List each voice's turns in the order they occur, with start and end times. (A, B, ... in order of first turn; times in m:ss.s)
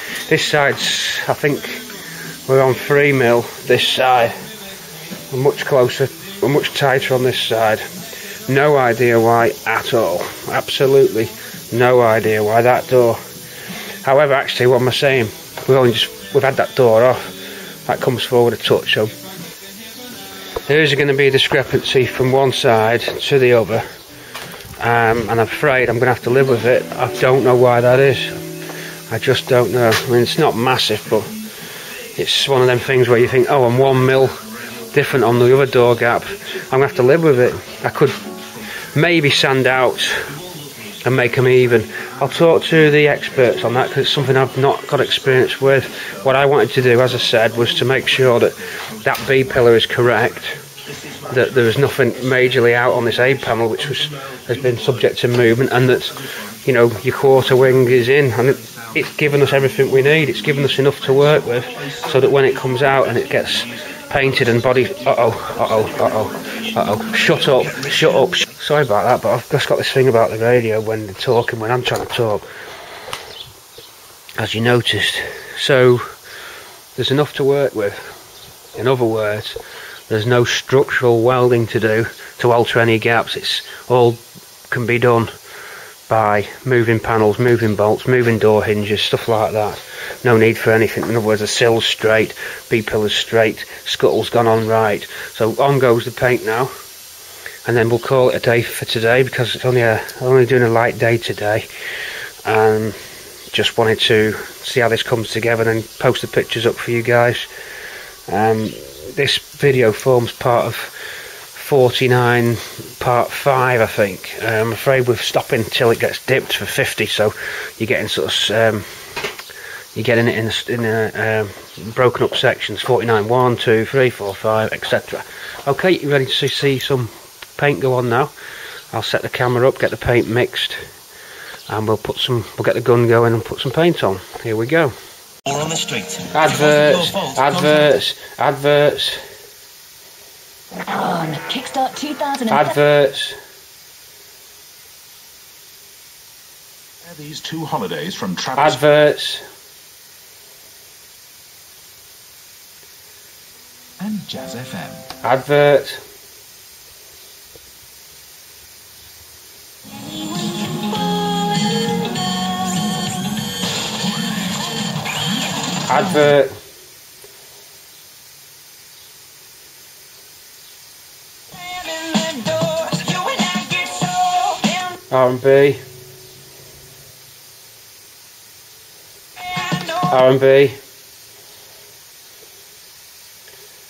0:00.3-0:01.8 A
0:02.5-0:04.3 A
0:05.3-0:07.9 A
0:08.5-0:13.2 A
0:14.0-0:17.3 A
0:17.9-0:19.1 A
0:20.7-0:23.9 A
0:24.8-0:28.4 A
0:29.1-0:31.3 A
0:32.2-0:34.4 A
0:34.9-0:38.2 A
0:39.0-0:40.3 A
0:41.0-0:50.6 A
0:51.3-1:12.4 A
1:14.4-1:16.1 A
1:17.0-1:18.1 A
1:18.8-1:19.6 A
1:20.1-1:25.3 A
1:26.1-1:36.7 A
1:37.7-1:41.7 A
1:42.4-1:43.0 A
1:43.5-1:47.5 A
1:48.3-1:50.9 A
1:51.6-1:59.1 A
2:00.0-2:08.3 A
2:08.9-2:10.9 A
2:11.7-2:14.9 A
2:15.5-2:17.9 B
2:16.3-2:19.2 A
2:20.9-2:22.8 C
2:22.5-2:23.4 A
2:27.0-2:28.8 B
2:28.6-2:29.4 A
2:34.0-2:35.0 B
2:35.2-2:36.0 A
2:45.9-2:46.5 A
2:52.3-2:54.1 C
2:55.1-2:55.8 A
3:00.0-3:00.8 A